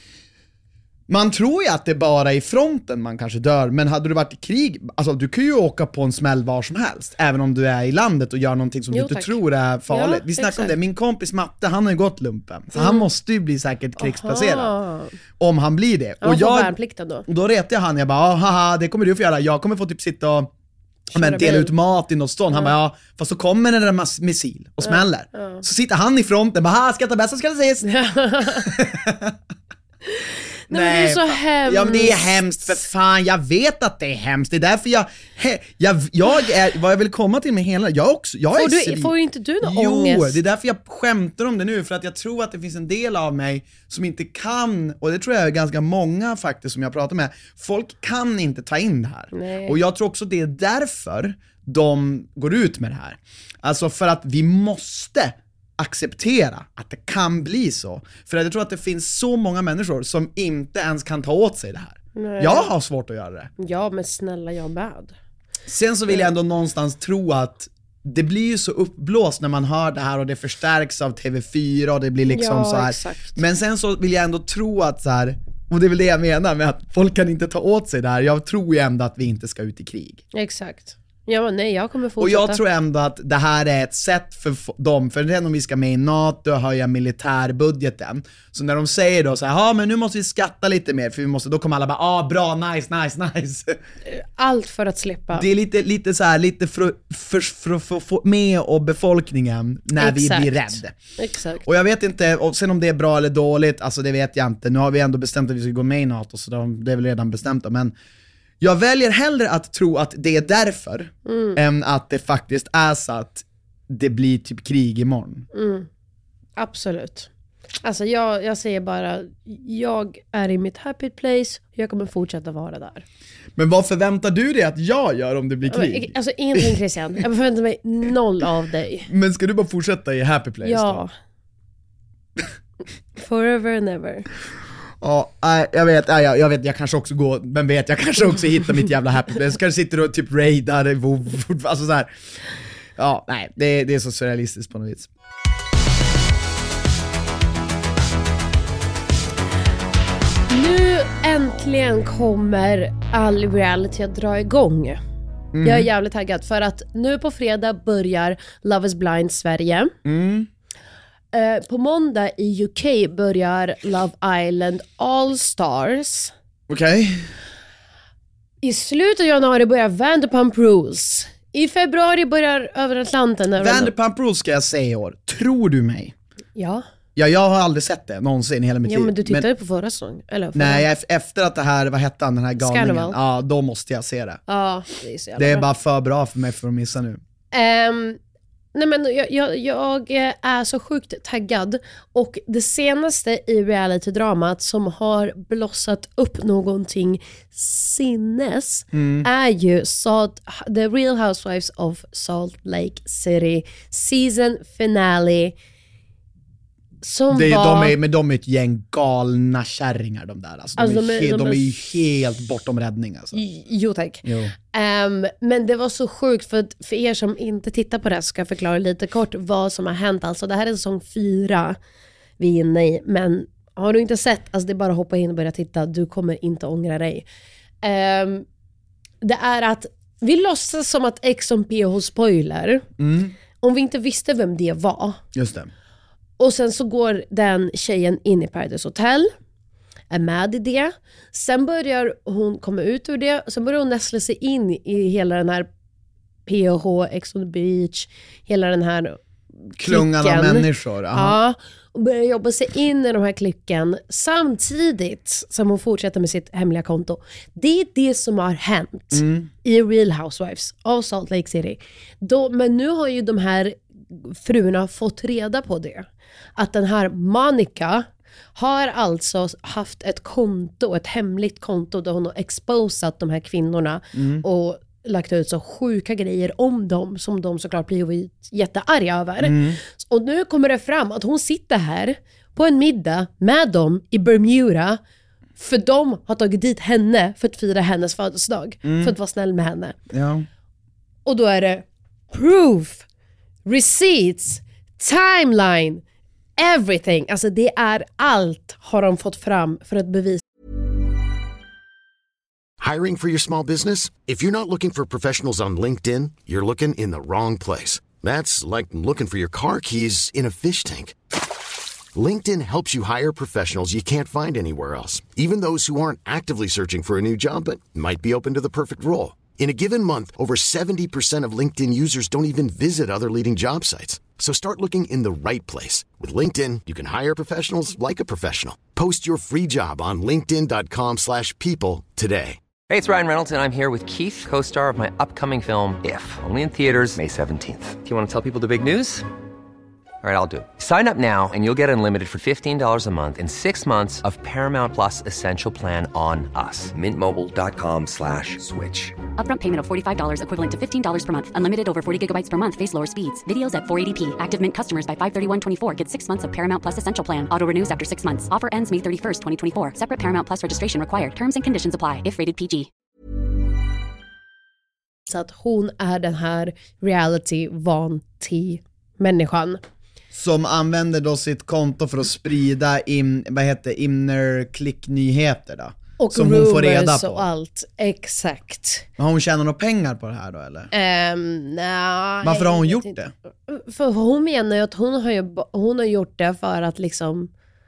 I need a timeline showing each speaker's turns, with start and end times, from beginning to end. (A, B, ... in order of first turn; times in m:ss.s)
0:01.1-0:14.7 A
0:08.9-0:10.7 B
0:12.8-0:13.0 B
0:14.0-0:15.2 B
0:15.4-0:16.7 A
0:16.2-0:17.2 B
0:17.2-0:20.5 A
0:21.1-0:21.7 B
0:21.1-0:27.9 A
0:24.8-0:25.6 B
0:27.8-0:28.7 B
0:28.4-0:29.4 A
0:30.1-0:32.2 B
0:30.7-1:03.5 A
0:38.5-0:40.4 B
0:49.3-0:49.8 B
1:02.1-1:02.7 B
1:03.6-1:05.1 B
1:05.7-1:20.2 A
1:12.3-1:13.4 B
1:20.3-1:22.6 B
1:22.2-1:33.8 A
1:34.1-1:35.5 B
1:35.3-1:40.9 A
1:40.0-1:41.6 B
1:41.6-1:47.9 A
1:48.6-1:55.5 A
1:51.2-1:51.6 B
1:55.5-1:55.9 B
1:56.6-1:57.3 B
1:57.8-2:03.0 B
2:03.6-2:06.8 A
2:05.7-2:09.1 B
2:09.1-2:11.0 A
2:10.6-2:11.1 B
2:13.2-2:14.3 B
2:15.0-2:22.1 A
2:23.0-2:25.1 A
2:30.5-2:35.0 B
2:35.5-2:35.9 A
2:35.6-2:39.9 B
2:40.0-2:40.5 A
2:41.3-2:46.3 B
2:46.7-2:47.3 A
2:48.6-2:53.9 B
2:53.6-2:56.1 A
2:56.6-2:56.8 B
2:57.2-2:59.4 A
2:58.8-3:00.8 B
3:00.5-3:04.4 A
3:02.6-3:03.2 B
3:04.5-3:05.7 B
3:05.4-3:07.2 A
3:07.5-3:08.2 B
3:08.7-3:25.5 B
3:18.9-3:19.3 A
3:27.0-3:27.9 B
3:27.3-3:33.4 A
3:30.8-3:31.7 B
3:33.3-3:41.8 B
3:34.2-3:34.5 A
3:42.4-3:47.2 B
3:47.8-3:48.4 B
3:49.2-3:52.9 B
3:53.0-3:53.3 A
3:53.6-3:55.2 B
3:55.3-3:55.7 A
3:56.4-3:59.3 B
4:00.1-4:05.7 B
4:06.4-4:09.2 B
4:09.8-4:11.4 A
4:09.8-4:26.0 B
4:19.1-4:19.5 A
4:26.6-4:45.0 B
4:34.1-4:34.4 A
4:39.4-4:39.8 A
4:45.6-4:50.0 B
4:48.8-4:49.1 A
4:50.1-4:50.5 A
4:51.2-4:53.0 B
4:53.6-4:56.0 B
4:56.6-5:00.4 B
5:02.8-5:11.2 C
5:12.1-5:32.6 C
5:32.9-5:39.2 D
5:40.2-5:49.2 D
5:49.4-6:02.9 E
6:05.3-6:09.8 B
6:10.3-6:17.4 A
6:16.2-6:19.1 B
6:19.2-6:20.9 A
6:20.9-6:23.2 B
6:22.4-6:23.3 A
6:23.7-6:27.5 B